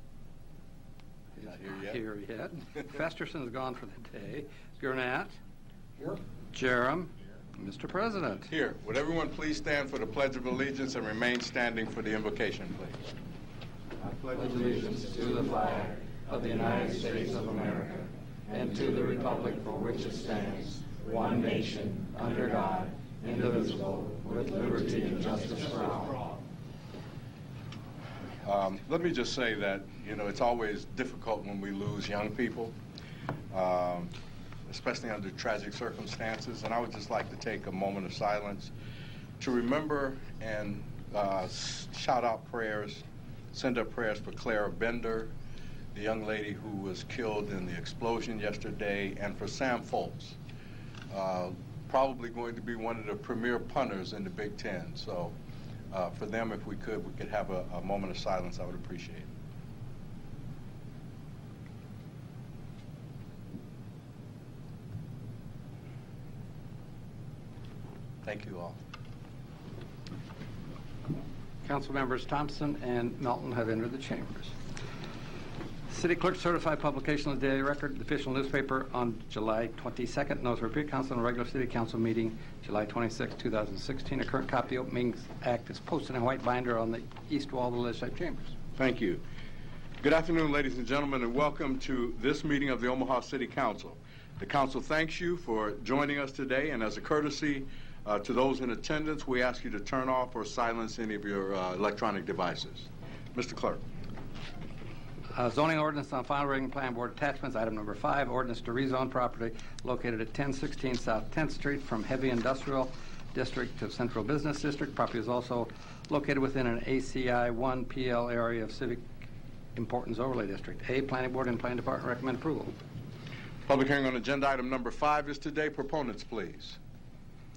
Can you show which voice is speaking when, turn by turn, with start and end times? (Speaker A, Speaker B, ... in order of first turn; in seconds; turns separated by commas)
Speaker A: 1.4-5.4, Speaker B: 1.4-2.0, Speaker A: 6.0-8.5, Speaker B: 8.5-13.1, Speaker A: 14.3-26.3, Speaker B: 28.4-32.8, Speaker B: 33.5-34.1, Speaker B: 34.7-38.7, Speaker B: 39.4-45.3, Speaker B: 45.9-50.4, Speaker B: 51.1-55.4, Speaker B: 55.9-59.3, Speaker B: 68.2-68.8, Speaker A: 71.7-74.6, Speaker A: 75.9-88.5, Speaker B: 88.8-89.2, Speaker B: 90.0-103.8, Speaker A: 105.3-119.1, Speaker A: 119.8-122.8, Speaker B: 123.7-126.8